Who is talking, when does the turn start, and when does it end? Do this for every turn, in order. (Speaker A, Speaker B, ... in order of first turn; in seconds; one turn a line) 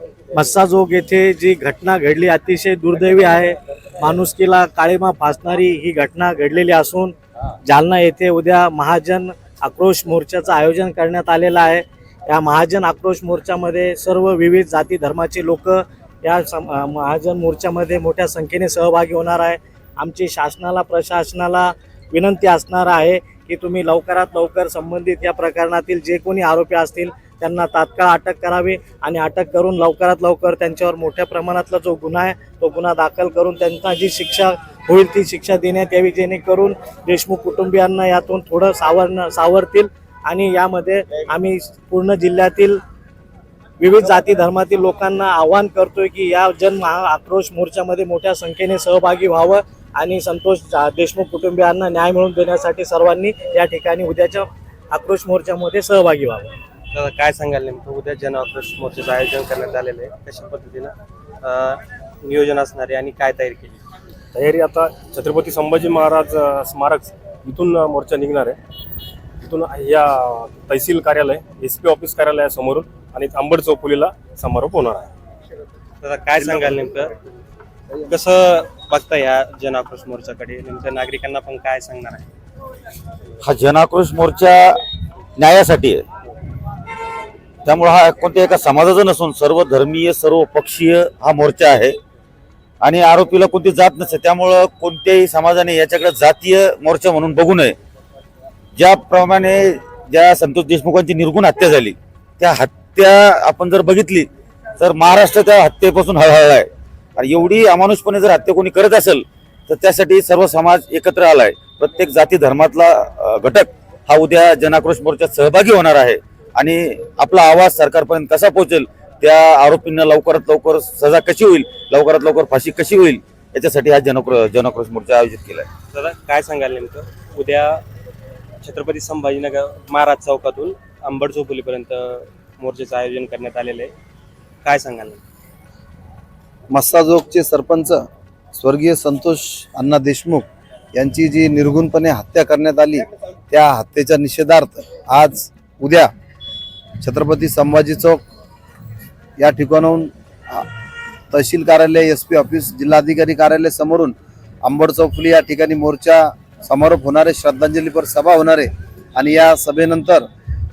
Speaker A: 0.3-42.8
Speaker A: 43.8-56.5
Speaker B: 56.9-63.8
Speaker C: 64.3-68.6
Speaker C: 69.5-75.1
Speaker B: 76.0-77.1
Speaker B: 78.1-82.2
Speaker D: 83.4-84.8
Speaker D: 85.4-86.0
Speaker D: 87.7-92.0
Speaker D: 92.8-97.8
Speaker D: 98.8-125.7
Speaker B: 125.9-127.8
Speaker B: 128.6-133.9
Speaker B: 134.6-135.2
Speaker E: 136.7-138.0
Speaker E: 138.5-146.1
Speaker E: 147.0-148.2
Speaker E: 149.4-150.7
Speaker E: 151.3-160.3